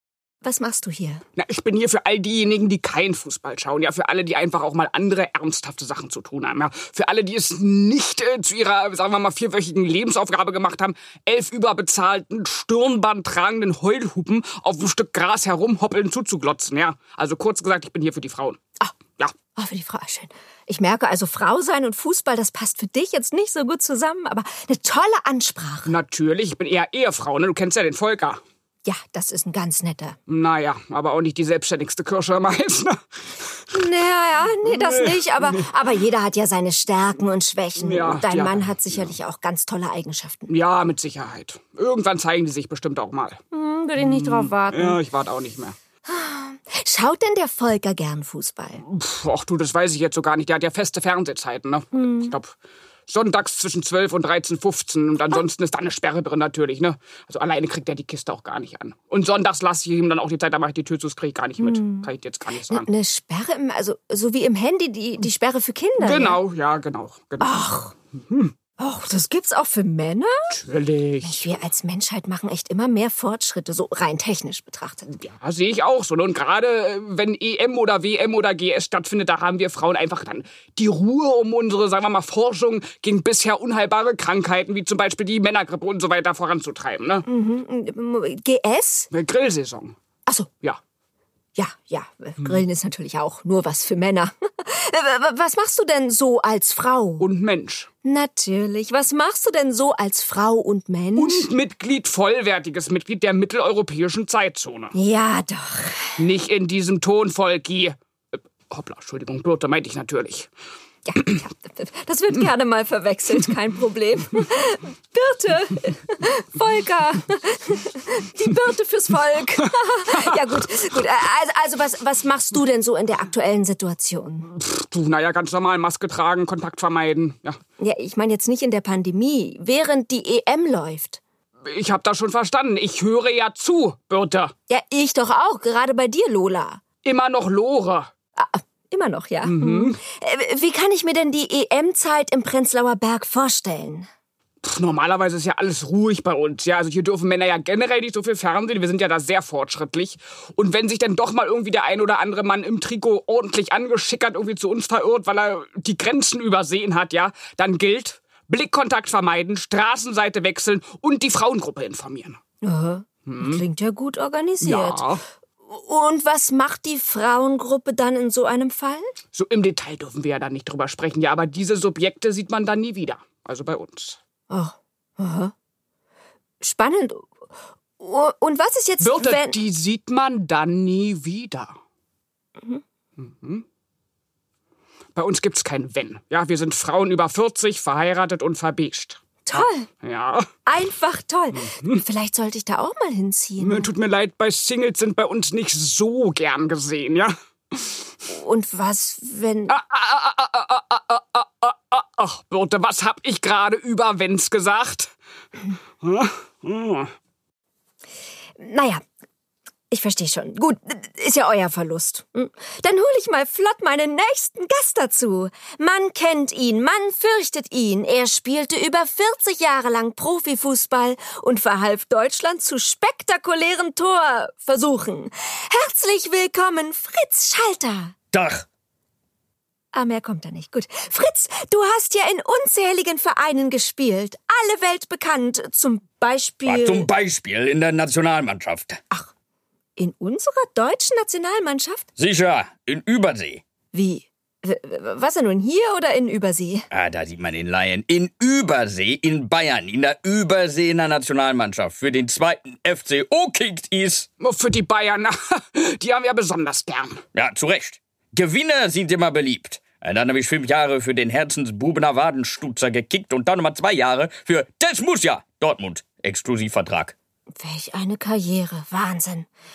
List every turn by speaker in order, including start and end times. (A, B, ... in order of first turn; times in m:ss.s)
0:00.4-0:01.2 A
0:01.4-0:18.6 B
0:19.5-0:25.9 A
0:25.9-0:28.4 B
0:28.8-0:30.2 A
0:30.3-0:33.0 B
0:33.7-0:40.5 A
0:34.6-0:35.6 B
0:37.8-0:39.1 B
0:40.5-0:43.4 B
0:43.5-0:45.0 A
0:44.0-0:45.8 B
0:46.0-0:48.8 A
0:48.8-0:52.5 B
0:51.9-0:52.3 A
0:53.1-1:02.9 B
1:01.6-1:02.1 A
1:02.7-1:06.4 A
1:06.0-1:08.5 B
1:07.4-1:07.9 A
1:08.8-1:10.5 A
1:10.5-1:11.6 B
1:11.2-1:15.1 A
1:15.2-1:27.2 B
1:27.2-1:29.1 A
1:29.1-1:30.0 B
1:31.6-1:37.3 A
1:37.2-1:37.9 B
1:38.0-1:41.5 A
1:41.2-1:44.9 B
1:44.9-1:46.2 A
1:46.2-1:50.5 B
1:51.0-2:04.5 A
2:04.5-2:07.6 B
2:07.8-2:11.2 A
2:11.6-2:14.5 B
2:14.7-2:16.8 A
2:17.0-2:18.1 B
2:18.4-2:24.1 A
2:19.4-2:20.0 B
2:24.6-2:42.4 B
2:42.6-2:45.0 A
2:43.3-2:43.6 B
2:44.6-2:45.2 B
2:45.6-2:49.1 A
2:49.3-2:54.2 B
2:54.5-2:55.5 A
2:56.6-2:57.3 A
2:58.0-2:59.6 A
2:59.0-3:01.8 B
3:03.2-3:03.6 B
3:05.2-3:10.4 B
3:09.4-3:09.9 A
3:10.6-3:13.9 A
3:11.5-3:12.0 B
3:13.6-3:18.0 B
3:18.3-3:19.7 A
3:19.7-3:25.1 B
3:26.0-3:27.1 B
3:28.6-3:29.0 A
3:29.9-3:48.1 A
3:48.3-3:48.6 C
3:49.9-3:57.1 A
3:56.6-3:59.0 C
4:00.0-4:02.0 A
4:02.2-4:03.6 C
4:03.9-4:06.9 A
4:06.9-4:14.3 C
4:14.4-4:17.2 B
4:17.3-4:27.1 C
4:27.6-4:29.5 A